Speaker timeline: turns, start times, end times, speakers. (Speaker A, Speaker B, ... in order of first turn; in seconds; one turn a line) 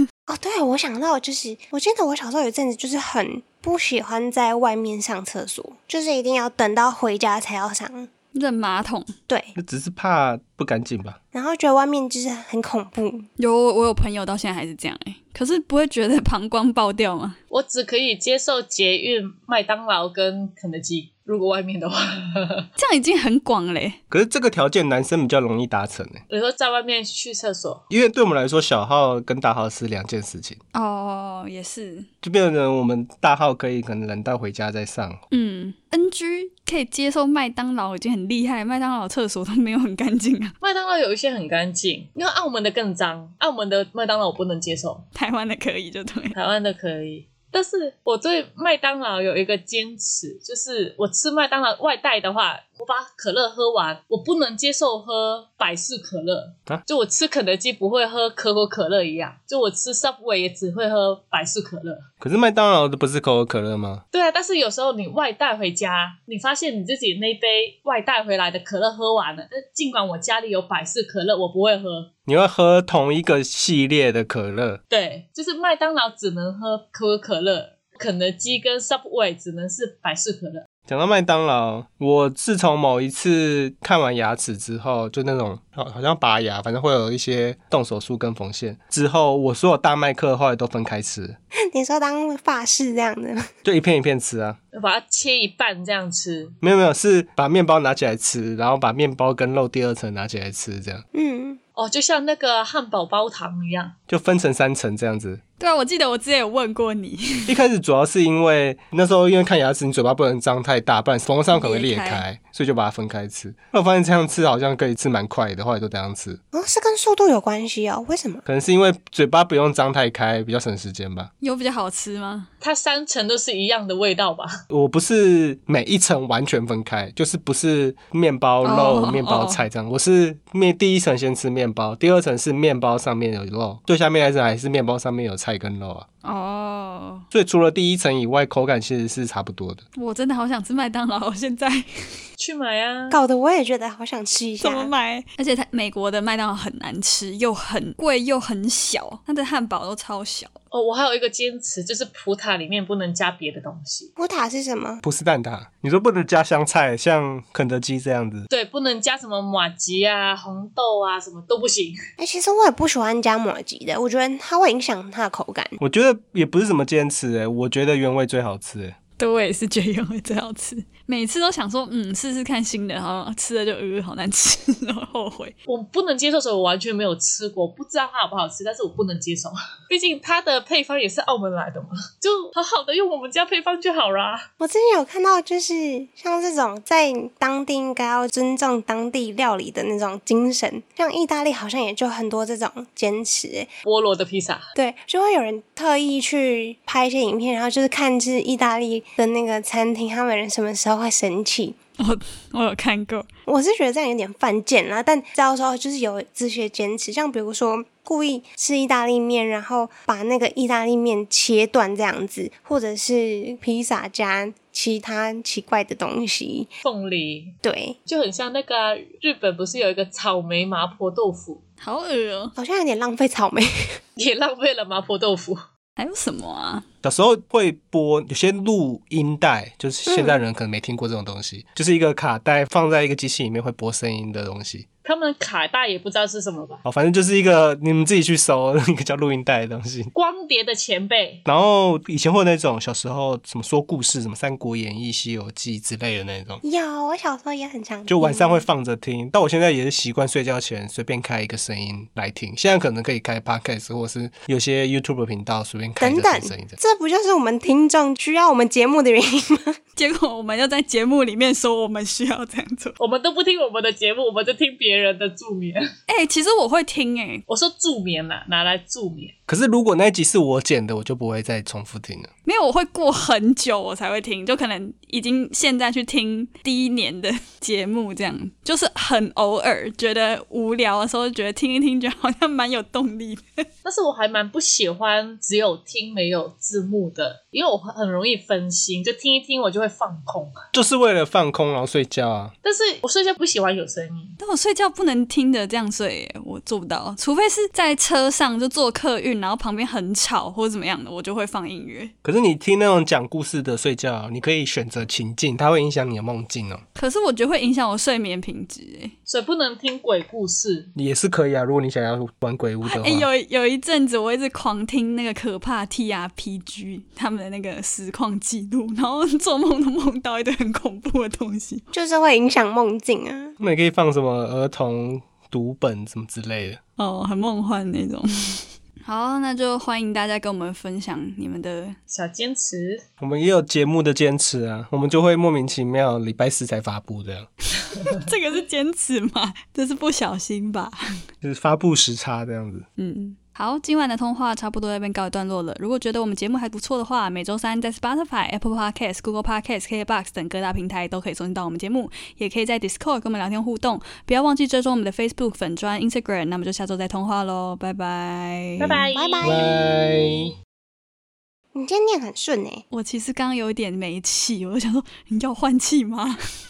Speaker A: 0.3-8.1
Speaker B: 8.3-9.1
Speaker A: 9.3-9.5
Speaker C: 9.6-11.2
Speaker A: 11.3-13.3
Speaker B: 13.4-17.4
Speaker D: 17.5-22.7
Speaker B: 22.8-24.0
Speaker C: 24.1-26.2
Speaker D: 26.3-27.8
Speaker C: 27.9-30.6
Speaker B: 30.7-32.1
Speaker C: 32.2-35.2
Speaker B: 35.3-40.5
Speaker D: 40.6-45.1
Speaker B: 45.1-46.4
Speaker D: 46.3-62.1
Speaker C: 62.2-64.0
Speaker D: 64.1-72.1
Speaker C: 72.3-74.8
Speaker D: 74.9-80.7
Speaker C: 80.9-91.4
Speaker A: 91.7-93.5
Speaker C: 93.7-94.6
Speaker D: 94.7-96.6
Speaker C: 96.6-101.0
Speaker A: 101.1-101.6
Speaker D: 101.8-104.0
Speaker C: 104.1-105.4
Speaker B: 105.6-107.6
Speaker C: 107.5-116.4
Speaker B: 111.5-112.2
Speaker A: 116.5-118.5
Speaker C: 118.5-121.3
Speaker B: 121.4-122.5
Speaker D: 122.6-124.6
Speaker C: 124.7-136.1
Speaker B: 128.6-129.6
Speaker B: 136.2-137.3
Speaker C: 137.3-139.8
Speaker B: 139.9-142.2
Speaker D: 142.4-143.2
Speaker A: 143.1-144.9
Speaker B: 144.6-150.6
Speaker D: 150.7-154.1
Speaker A: 154.2-155.0
Speaker C: 155.0-158.5
Speaker D: 158.5-162.0
Speaker A: 162.2-165.8
Speaker C: 165.8-169.0
Speaker B: 169.2-175.6
Speaker D: 175.7-184.5
Speaker A: 184.6-193.7
Speaker D: 193.8-194.7
Speaker A: 194.8-201.8
Speaker B: 202.0-203.3
Speaker A: 203.5-216.7
Speaker D: 216.8-217.6
Speaker A: 217.6-218.0
Speaker D: 218.1-221.6
Speaker B: 221.8-222.6
Speaker A: 222.6-224.0
Speaker D: 224.2-225.6
Speaker B: 226.0-226.8
Speaker C: 227.0-234.9
Speaker A: 230.1-230.4
Speaker D: 235.0-236.8
Speaker C: 236.8-240.1
Speaker D: 240.1-241.4
Speaker C: 241.4-246.6
Speaker A: 246.6-248.7
Speaker C: 248.1-256.8
Speaker A: 256.0-259.8
Speaker B: 260.0-263.0
Speaker D: 263.0-265.9
Speaker B: 266.1-267.4
Speaker D: 267.5-269.4
Speaker C: 269.5-272.3
Speaker B: 272.4-283.7
Speaker D: 283.9-290.6
Speaker C: 290.7-292.5
Speaker D: 292.6-294.4
Speaker B: 294.4-302.1
Speaker C: 302.2-306.8
Speaker B: 306.9-309.1
Speaker D: 309.3-310.9
Speaker C: 310.9-313.3
Speaker B: 312.8-321.9
Speaker A: 321.9-323.6
Speaker C: 323.6-326.8
Speaker B: 327.0-332.0
Speaker D: 332.1-333.0
Speaker C: 333.2-337.5
Speaker B: 337.9-341.0
Speaker C: 341.4-342.9
Speaker B: 343.0-359.1
Speaker D: 358.8-359.6
Speaker A: 359.1-359.7
Speaker C: 359.4-360.5
Speaker A: 361.8-362.8
Speaker B: 362.9-366.4